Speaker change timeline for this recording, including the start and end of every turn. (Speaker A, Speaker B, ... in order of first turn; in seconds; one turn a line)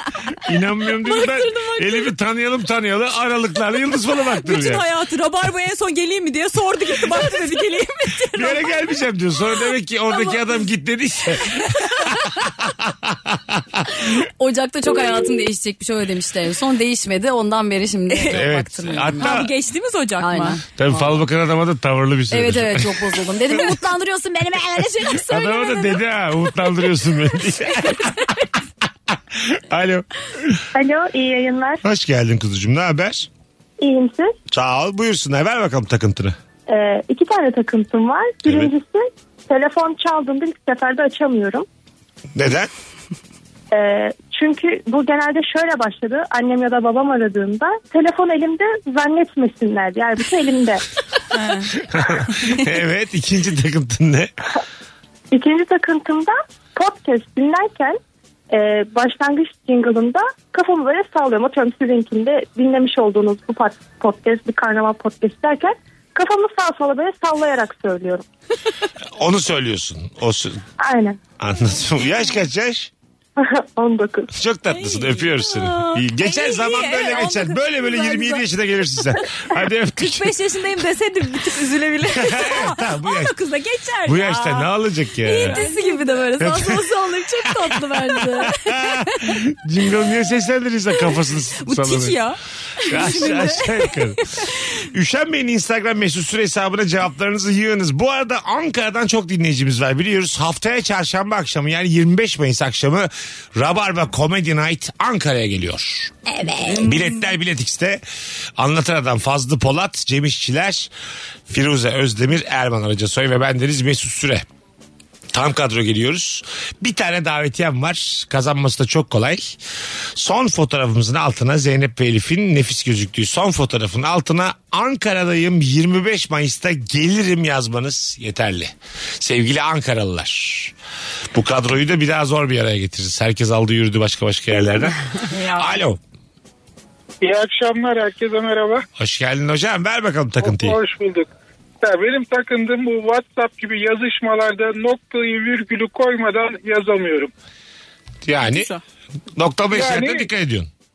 Speaker A: 0.5-4.8
Speaker B: 1.1-2.1
Speaker C: 4.4-8.7
Speaker A: 8.4-14.1
Speaker B: 14.2-19.4
Speaker C: 18.1-18.4
Speaker A: 18.3-19.5
Speaker C: 19.2-20.6
Speaker B: 20.2-21.2
Speaker A: 20.8-23.7
Speaker B: 22.3-26.0
Speaker A: 25.2-28.3
Speaker A: 29.1-30.6
Speaker D: 30.8-31.8
Speaker A: 31.8-33.3
Speaker D: 33.8-34.4
Speaker A: 34.5-36.4
Speaker D: 36.7-41.7
Speaker A: 38.5-38.7
Speaker A: 42.4-42.7
Speaker D: 43.7-50.8
Speaker C: 51.3-51.7
Speaker A: 51.9-54.3
Speaker D: 55.3-58.0
Speaker D: 58.5-68.2
Speaker A: 69.2-70.6
Speaker D: 70.8-71.2
Speaker A: 71.4-72.9
Speaker D: 73.4-74.3
Speaker A: 74.3-80.3
Speaker C: 74.7-77.6
Speaker B: 77.8-78.4
Speaker C: 80.0-84.7
Speaker A: 82.1-83.3
Speaker A: 84.0-85.6
Speaker C: 85.2-86.8
Speaker B: 85.3-88.5
Speaker A: 86.4-86.9
Speaker C: 87.4-88.5
Speaker A: 87.6-92.2
Speaker C: 91.6-94.1
Speaker A: 92.8-94.2
Speaker A: 94.9-106.2
Speaker B: 106.3-106.8
Speaker A: 106.7-108.0
Speaker A: 108.6-110.9
Speaker A: 111.5-114.5
Speaker A: 115.3-119.6
Speaker A: 120.2-130.7
Speaker A: 131.3-136.0
Speaker C: 135.3-135.7
Speaker E: 137.2-138.8
Speaker A: 139.0-140.8
Speaker E: 140.4-141.3
Speaker E: 141.8-147.3
Speaker A: 148.2-148.7
Speaker C: 148.4-148.8
Speaker A: 149.4-150.7
Speaker E: 149.7-150.3